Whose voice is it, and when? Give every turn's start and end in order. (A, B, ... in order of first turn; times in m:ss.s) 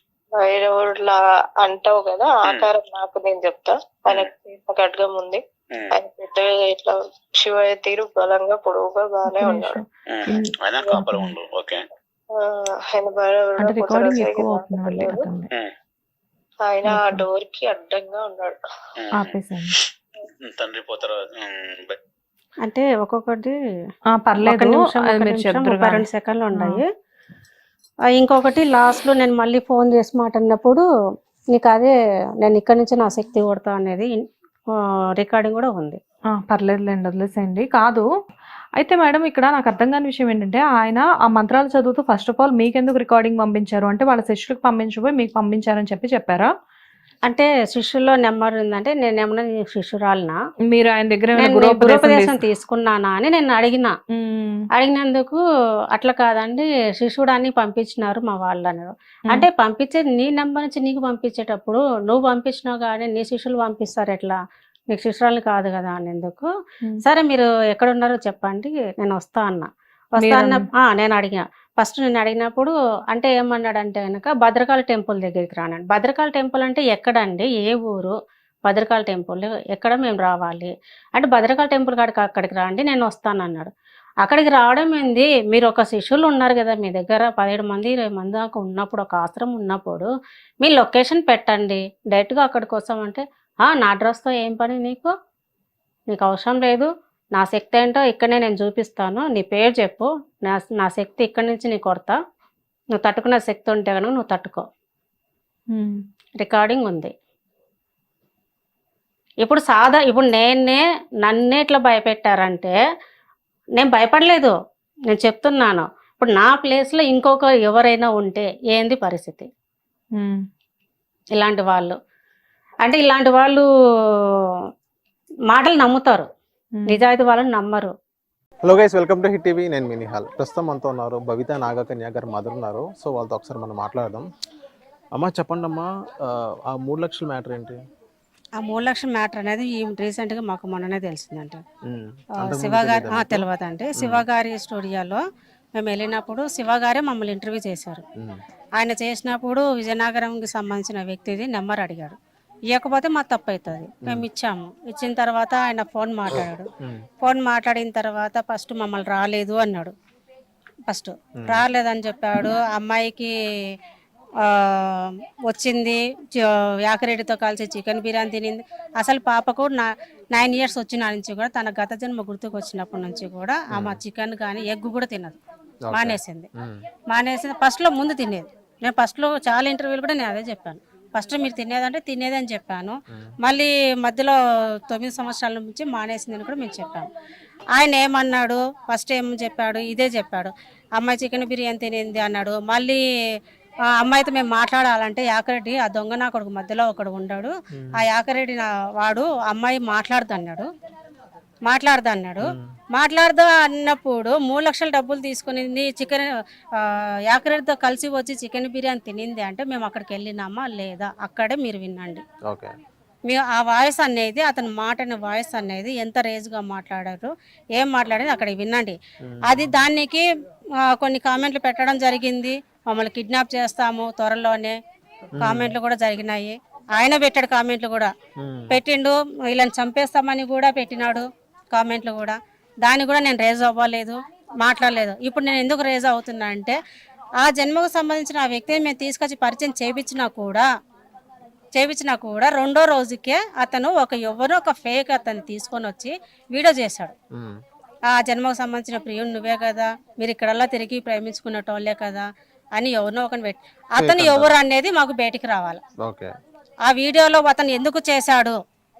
0:00.3-0:09.8 A
0:09.3-0:11.3 B
0:10.1-0:11.8 C
0:12.3-0:15.2 A
0:13.6-0:15.5 B
0:16.6-0:18.6 A
0:16.9-0:17.2 B
0:19.0-0:19.4 C
0:19.2-0:19.8 B
0:20.4-0:22.0 C
0:22.6-0:23.6 D
0:24.1-0:26.8 B
0:24.4-0:26.9 D
0:28.1-0:30.8 D
0:31.5-0:36.0 D
0:36.4-0:38.0 B
0:38.8-0:46.5 B
0:47.2-0:50.4 D
0:50.7-0:52.4 B
0:51.4-0:54.0 D
0:54.1-0:54.6 B
0:54.7-0:55.4 D
0:55.9-1:04.4 D
1:04.9-1:06.5 D
1:07.0-1:23.7 D
1:10.2-1:10.6 B
1:24.2-1:30.1 D
1:30.6-1:35.1 D
1:36.1-1:42.2 D
1:42.9-1:44.7 D
1:45.7-1:46.0 B
1:46.4-1:47.1 D
1:49.4-1:52.7 D
1:53.8-1:54.6 D
1:55.1-1:59.5 D
2:00.2-2:00.4 B
2:01.3-2:02.0 D
2:02.8-2:04.4 D
2:05.5-2:06.3 D
2:06.8-2:07.0 B
2:06.9-2:07.9 D
2:08.6-2:14.3 E
2:15.1-2:17.8 E
2:18.6-2:21.6 D
2:21.8-2:23.5 E
2:22.4-2:25.2 D
2:24.0-2:24.2 E
2:25.8-2:28.0 D
2:28.8-2:32.2 D
2:32.7-2:36.7 D
2:36.8-2:37.0 E
2:37.2-2:39.9 D
2:40.9-2:43.3 D
2:41.4-2:41.6 E
2:44.4-2:55.4 D
2:53.7-2:54.0 E
2:55.9-2:56.8 E
2:55.9-2:56.5 D
2:57.1-3:04.4 D
3:04.9-3:07.1 D
3:07.8-3:13.0 D
3:13.9-3:20.7 D
3:17.7-3:18.0 E
3:21.6-3:32.2 D
3:22.4-3:22.7 E
3:32.4-3:32.8 E
3:33.3-3:40.2 D
3:39.2-3:39.7 E
3:40.8-3:44.8 D
3:45.3-3:45.7 E
3:45.4-3:48.1 D
3:48.4-3:48.8 E
3:48.7-3:56.8 D
3:57.4-4:00.6 D
4:01.7-4:07.1 D
4:07.3-4:07.6 E
4:08.1-4:15.8 D
4:14.0-4:14.5 E
4:16.0-4:16.3 E
4:16.8-4:18.6 D